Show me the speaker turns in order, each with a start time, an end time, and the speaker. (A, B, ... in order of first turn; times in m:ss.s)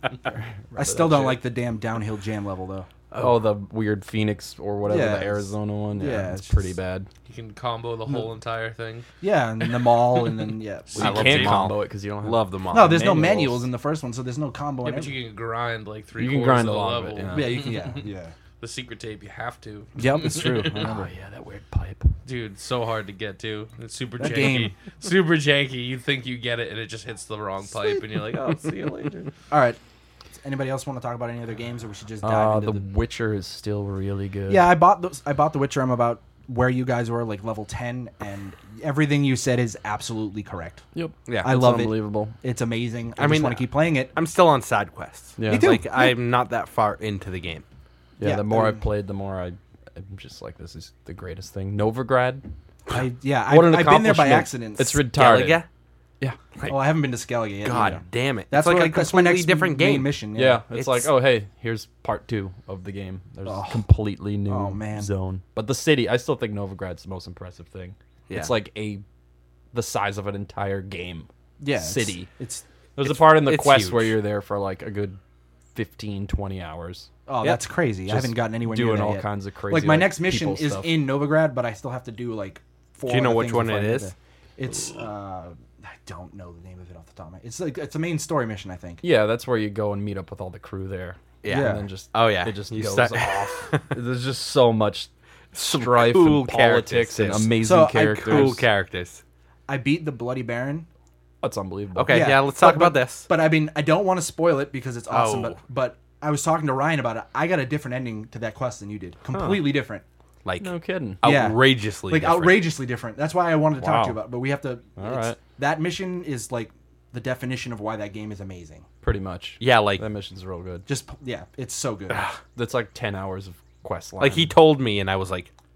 0:00.2-0:01.4 A
0:00.7-0:02.9 B
0:03.1-0:03.4 C
0:03.1-0:07.1 A
0:04.9-0:06.8 B
0:07.3-0:09.1 D
0:09.2-0:11.6 B
0:10.9-0:13.6 A
0:10.9-0:13.1 C
0:12.7-0:15.2 B
0:14.8-0:18.0 D
0:16.2-0:17.6 A
0:17.3-0:18.3 B
0:18.6-0:20.8 D
0:20.0-0:21.1 B
0:20.7-0:22.2 A
0:22.2-0:29.3 D
0:24.2-0:24.8 B
0:29.5-0:29.8 B
0:30.3-0:32.8 B
0:32.2-0:34.7 A
0:34.5-0:40.8 B
0:40.9-0:42.4 A
0:41.3-0:41.6 C
0:41.4-0:44.1 B
0:43.2-0:47.6 C
0:45.4-0:45.7 A
0:45.5-0:46.2 B
0:48.2-0:52.5 A
0:48.2-0:48.8 B
0:52.9-0:55.0 B
0:53.5-0:55.6 A
0:55.1-0:55.7 C
0:56.7-1:00.6 B
0:57.6-1:00.2 C
1:00.4-1:09.0 A
1:00.8-1:01.1 C
1:03.4-1:03.8 B
1:04.5-1:05.1 B
1:09.7-1:12.3 A
1:11.6-1:12.6 B
1:13.0-1:15.2 A
1:13.0-1:14.2 C
1:15.7-1:21.0 A
1:17.2-1:29.0 B
1:23.0-1:24.1 C
1:29.0-1:38.6 A
1:31.4-1:33.8 C
1:31.5-1:31.9 B
1:35.5-1:37.5 C
1:37.6-1:38.6 B
1:38.1-1:39.2 C
1:39.7-1:40.9 B
1:41.4-1:42.4 A
1:41.9-1:43.3 C
1:42.1-1:50.0 B
1:45.1-1:45.6 C
1:49.3-1:49.7 A
1:50.4-1:52.7 C
1:50.6-1:51.2 A
1:51.2-1:58.9 B
1:53.8-1:54.2 A
1:55.0-1:55.4 A
1:59.0-2:00.9 A
1:59.6-2:00.0 C
2:00.9-2:02.3 B
2:02.1-2:02.4 C
2:02.5-2:04.5 A
2:04.2-2:05.5 C